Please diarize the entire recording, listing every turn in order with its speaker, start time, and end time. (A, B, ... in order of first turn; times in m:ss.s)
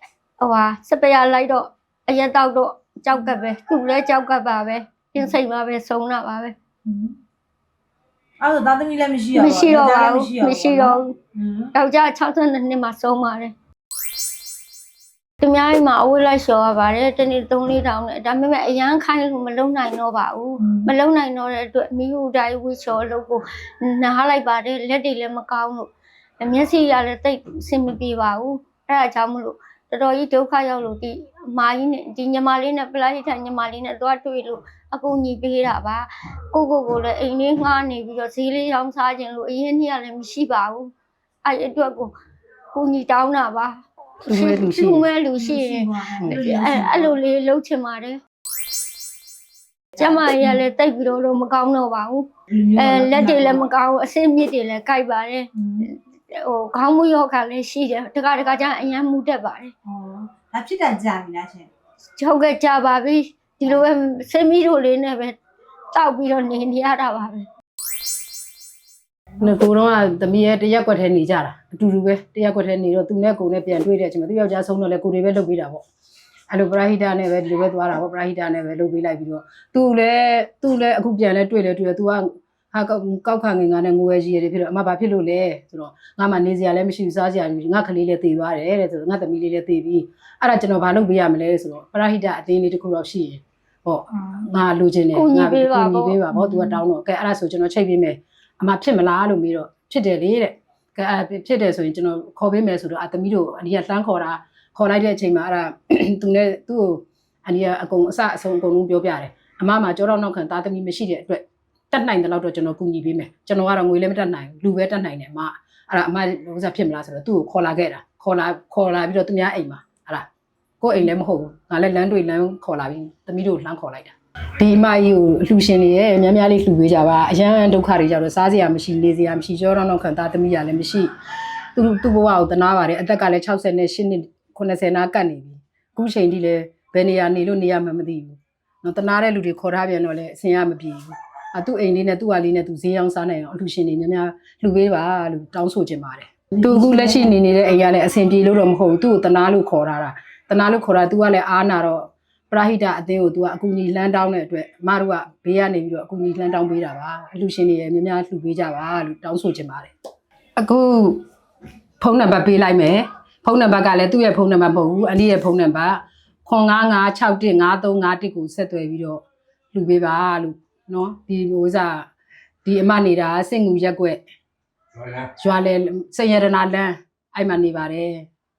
0:00.4-0:06.6 A
0:06.8-0:07.2 B
0:08.4-0:11.7 B
0:09.4-0:11.1 A
0:11.7-0:13.5 A
0:15.4-0:25.9 A
0:20.6-0:20.9 B
0:26.4-0:40.9 A
0:41.4-0:42.1 A
0:42.7-0:48.2 A
0:44.2-0:45.1 C
0:45.4-0:47.2 B
0:50.0-0:50.6 B
0:50.0-0:59.7 A
0:52.5-0:53.7 B
0:55.6-0:55.9 B
0:59.9-1:01.7 B
1:02.2-1:05.4 A
1:05.9-1:07.5 A
1:09.4-1:15.8 C
1:16.5-2:00.3 C
1:34.2-1:34.4 B
1:35.1-1:36.2 A
1:36.3-1:36.8 B
2:00.8-2:11.1 C
2:11.8-2:39.9 C
2:40.6-2:41.2 C
2:42.0-2:52.1 C
2:52.6-2:54.2 C
2:55.3-2:58.3 C